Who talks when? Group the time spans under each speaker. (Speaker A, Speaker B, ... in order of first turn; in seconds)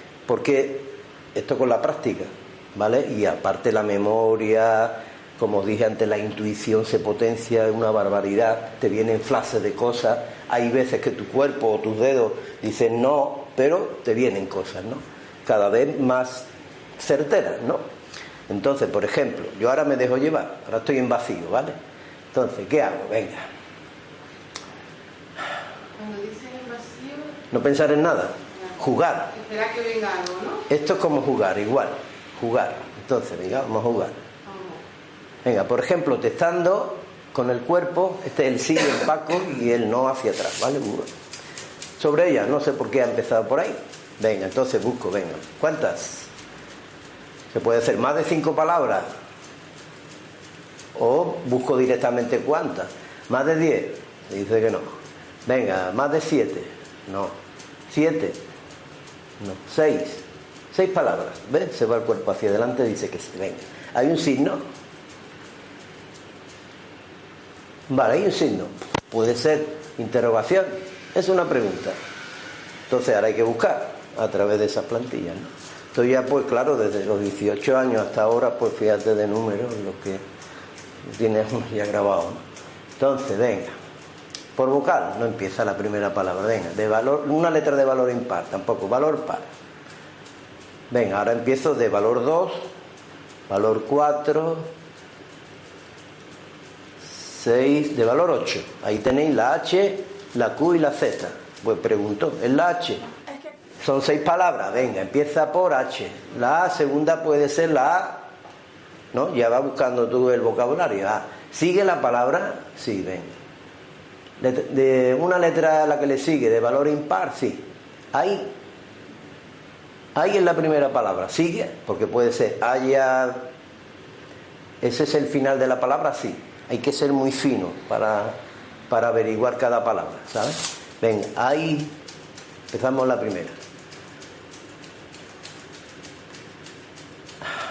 Speaker A: 0.3-17.8, 18.5-21.8, 22.3-23.4, 27.5-29.3, 30.7-34.2, 35.4-41.1, 42.0-46.3, 47.5-49.1, 50.9-54.9, 55.5-57.3, 57.9-58.4, 59.4-64.6, 67.9-72.0, 72.9-80.2, 81.0-82.4, 83.0-83.7, 84.5-89.4, 90.9-92.7, 93.5-94.7, 97.0-103.0, 103.8-108.2, 109.1-113.3, 114.4-118.5, 120.1-123.4, 124.8-128.3, 128.9-131.9, 132.7-133.5
Speaker B: 25.9-27.3, 29.3-30.6, 34.5-34.8